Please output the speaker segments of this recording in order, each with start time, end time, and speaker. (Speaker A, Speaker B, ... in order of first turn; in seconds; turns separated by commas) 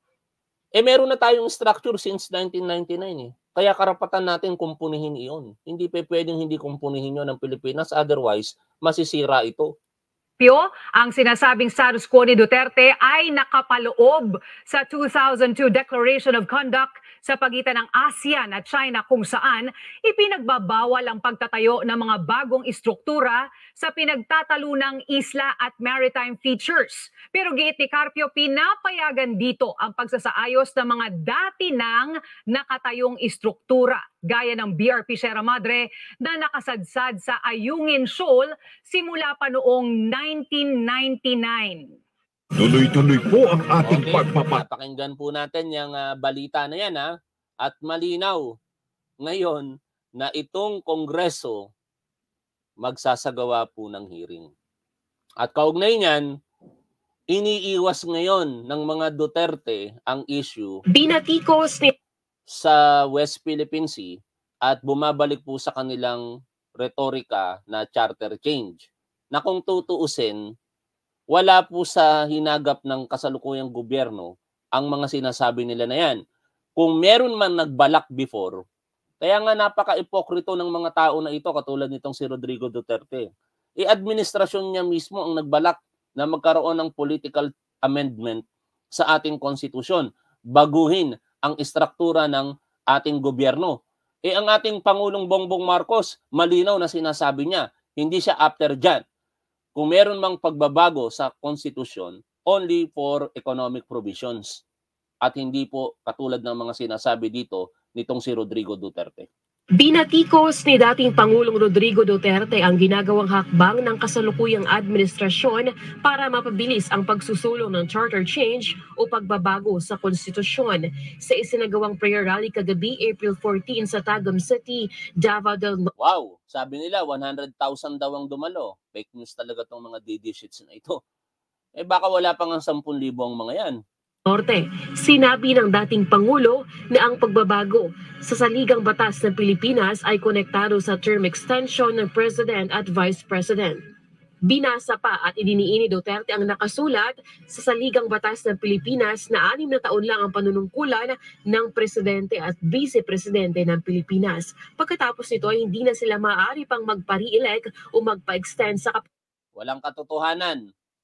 Speaker A: 0.8-9.7, Speaker B: 10.4-41.9, Speaker C: 42.6-44.6, Speaker A: 43.8-47.1, Speaker A: 47.6-48.5, Speaker A: 49.2-51.7, Speaker A: 52.8-54.5, Speaker A: 55.4-56.2, Speaker A: 57.3-60.8, Speaker D: 60.9-61.9, Speaker A: 62.5-66.2, Speaker A: 66.8-70.4, Speaker A: 71.3-76.2, Speaker A: 76.8-78.6, Speaker A: 79.2-83.3, Speaker A: 83.8-99.0, Speaker A: 99.8-104.6, Speaker A: 105.2-109.3, Speaker D: 109.8-125.9, Speaker A: 126.0-131.0, Speaker A: 131.8-133.8, Speaker D: 134.3-143.8, Speaker D: 144.4-159.1, Speaker A: 159.6-160.6